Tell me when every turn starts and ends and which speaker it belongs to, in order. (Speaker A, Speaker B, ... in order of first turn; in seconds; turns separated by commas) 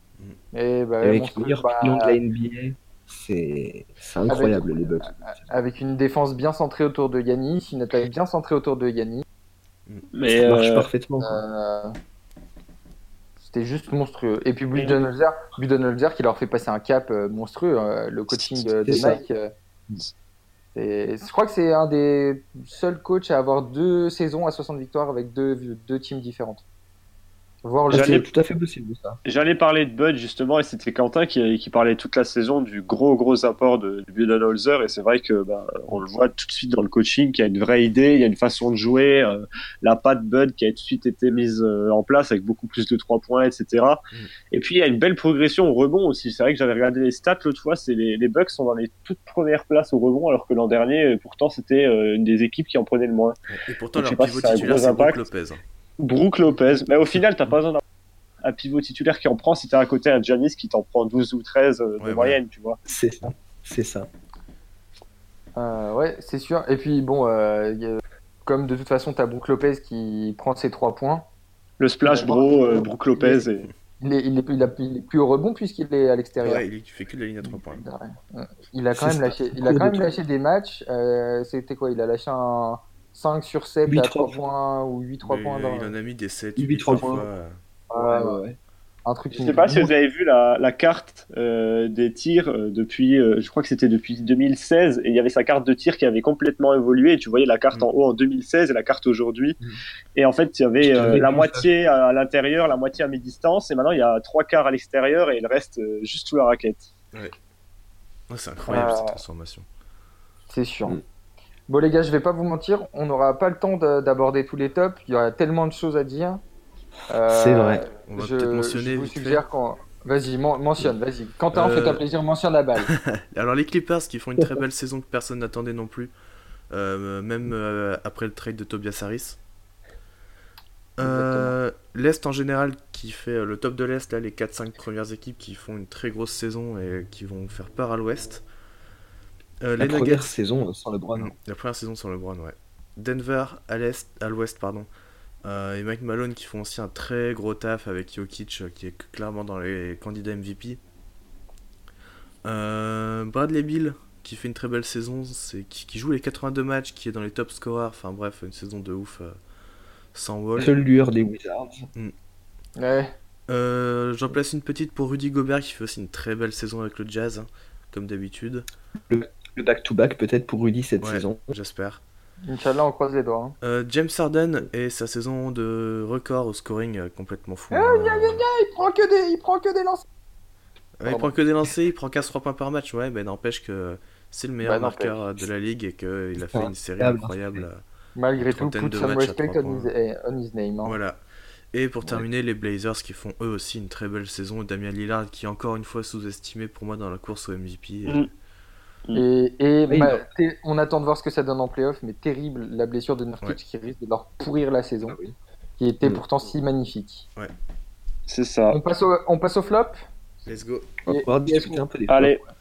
Speaker A: 0.5-2.2, Speaker B: 1.0-5.5, Speaker A: 4.3-9.2, Speaker C: 10.1-10.9, Speaker B: 10.2-11.4, Speaker A: 11.2-12.0, Speaker A: 13.4-19.5, Speaker B: 18.6-19.2, Speaker A: 20.7-26.6, Speaker A: 27.6-28.2, Speaker C: 27.9-28.2, Speaker B: 27.9-29.2, Speaker C: 29.2-53.4, Speaker D: 53.5-55.6, Speaker C: 53.9-55.2, Speaker C: 56.0-57.8, Speaker C: 58.4-62.8, Speaker D: 62.0-62.4, Speaker B: 62.9-64.1, Speaker A: 65.6-71.2, Speaker C: 71.8-73.7, Speaker A: 72.0-73.4, Speaker A: 74.0-76.6, Speaker D: 76.4-77.8, Speaker A: 77.4-85.9, Speaker B: 78.9-80.1, Speaker B: 83.9-84.4, Speaker D: 85.2-87.6, Speaker B: 86.6-87.3, Speaker A: 87.9-88.4, Speaker B: 88.0-88.6, Speaker A: 89.1-89.7, Speaker B: 89.3-89.9, Speaker C: 89.4-99.6, Speaker C: 100.1-106.9, Speaker B: 100.8-101.7, Speaker D: 108.3-109.7, Speaker A: 108.7-109.2, Speaker A: 110.5-111.0, Speaker A: 111.7-116.4, Speaker A: 117.1-122.9, Speaker B: 117.3-117.9, Speaker D: 118.1-119.4, Speaker D: 121.5-122.0, Speaker D: 122.9-126.1, Speaker D: 126.7-129.4, Speaker D: 131.0-138.4, Speaker A: 131.0-131.5, Speaker D: 139.6-140.3, Speaker B: 139.8-141.3, Speaker D: 141.2-144.9, Speaker D: 145.4-150.8, Speaker D: 152.4-159.4, Speaker D: 160.1-160.7, Speaker B: 160.6-161.8, Speaker A: 162.8-163.1, Speaker D: 163.5-168.7, Speaker B: 169.1-171.5, Speaker D: 171.0-172.0, Speaker A: 172.4-173.5, Speaker D: 173.6-178.4, Speaker A: 177.7-180.0, Speaker D: 181.0-187.8, Speaker A: 181.0-181.3, Speaker A: 184.6-185.2, Speaker B: 186.3-187.6, Speaker A: 188.2-191.0, Speaker D: 188.5-189.9, Speaker D: 190.8-191.2, Speaker D: 191.7-198.2, Speaker A: 199.1-205.2, Speaker B: 199.9-200.2, Speaker B: 205.1-205.3, Speaker A: 205.8-207.2, Speaker C: 208.3-208.8, Speaker A: 208.7-210.0, Speaker D: 210.4-210.9, Speaker B: 211.0-212.4, Speaker A: 211.1-211.8, Speaker C: 212.1-212.4